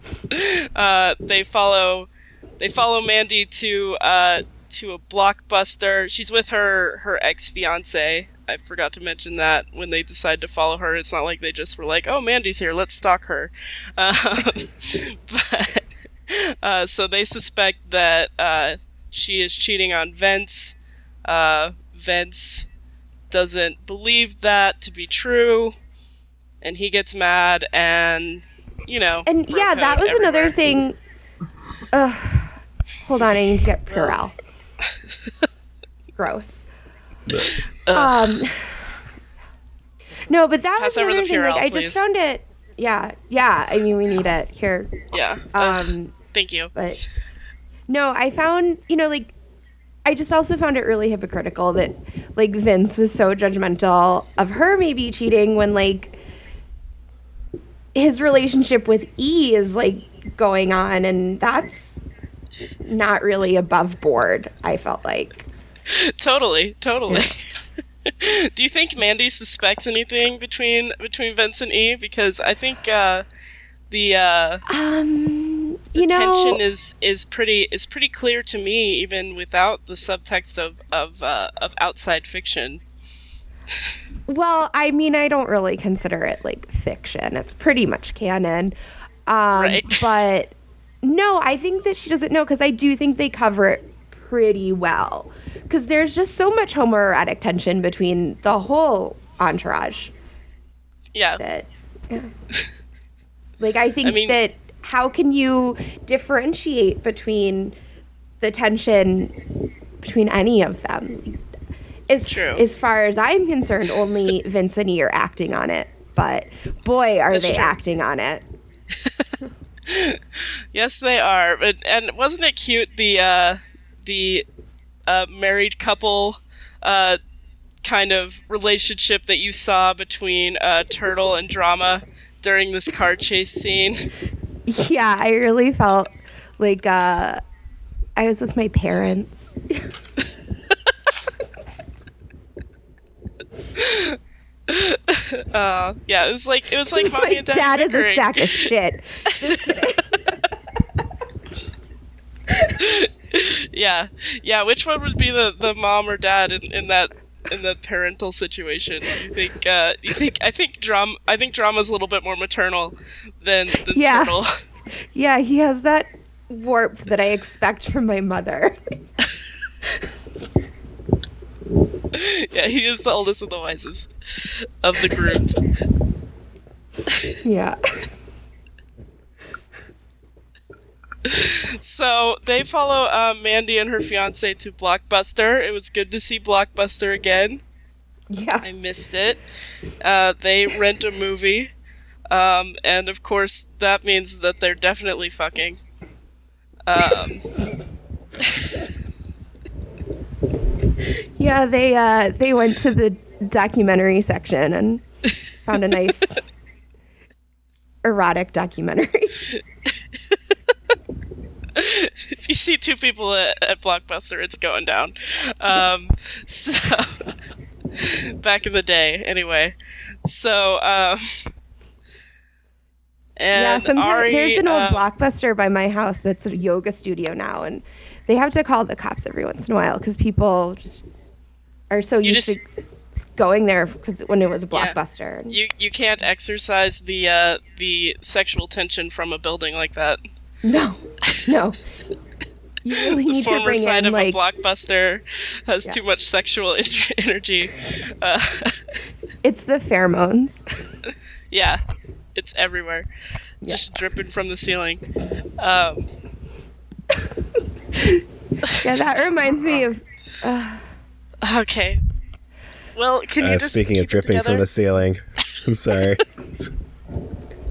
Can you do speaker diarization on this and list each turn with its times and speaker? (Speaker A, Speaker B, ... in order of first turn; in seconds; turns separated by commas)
Speaker A: 0.3-22.7, Speaker A: 23.3-25.8, Speaker A: 26.6-30.6, Speaker B: 29.3-31.0, Speaker B: 31.9-34.3, Speaker A: 33.9-34.1, Speaker B: 36.2-36.7, Speaker A: 37.5-38.4, Speaker B: 37.9-38.9, Speaker B: 40.3-44.9, Speaker A: 40.8-42.0, Speaker A: 45.1-46.7, Speaker B: 45.5-46.1, Speaker B: 46.8-47.0, Speaker B: 47.9-49.3, Speaker B: 50.0-56.2, Speaker B: 58.0-62.0, Speaker B: 62.8-65.5, Speaker A: 65.9-73.2, Speaker A: 73.9-74.6, Speaker B: 74.7-76.6, Speaker A: 76.0-82.8, Speaker B: 84.3-100.1, Speaker A: 89.5-90.1, Speaker A: 101.1-101.4, Speaker B: 101.4-102.3, Speaker B: 103.6-107.8, Speaker A: 104.0-104.4, Speaker B: 108.4-109.4, Speaker B: 110.0-111.4, Speaker B: 112.1-118.4, Speaker A: 112.3-112.7, Speaker A: 117.3-117.7, Speaker A: 119.0-119.3, Speaker A: 119.9-124.5, Speaker A: 125.1-127.2, Speaker A: 127.8-134.1, Speaker B: 134.7-137.4, Speaker B: 138.2-139.8, Speaker A: 143.8-148.7, Speaker B: 146.9-150.2, Speaker A: 149.4-149.8, Speaker A: 152.7-164.5, Speaker B: 163.9-164.4, Speaker B: 165.0-168.8, Speaker A: 172.1-175.6, Speaker B: 177.4-178.0, Speaker A: 181.2-187.6, Speaker B: 188.3-188.7, Speaker A: 188.6-189.4, Speaker A: 190.0-191.7, Speaker A: 192.3-195.8, Speaker A: 196.9-197.5, Speaker B: 201.4-206.5, Speaker B: 208.0-209.6, Speaker A: 211.8-217.2, Speaker A: 217.9-221.5, Speaker A: 223.4-225.1, Speaker B: 223.5-231.0, Speaker B: 231.9-232.7, Speaker A: 232.2-232.6, Speaker B: 233.2-235.6, Speaker A: 234.7-235.0, Speaker A: 235.5-240.2, Speaker B: 240.6-241.8, Speaker B: 242.8-244.4, Speaker A: 243.0-249.0, Speaker B: 249.4-250.6, Speaker A: 251.5-251.8, Speaker A: 252.3-253.1, Speaker A: 253.7-255.0, Speaker A: 255.6-256.1, Speaker B: 258.0-260.8, Speaker A: 261.4-262.0, Speaker A: 262.9-264.7, Speaker C: 263.4-266.7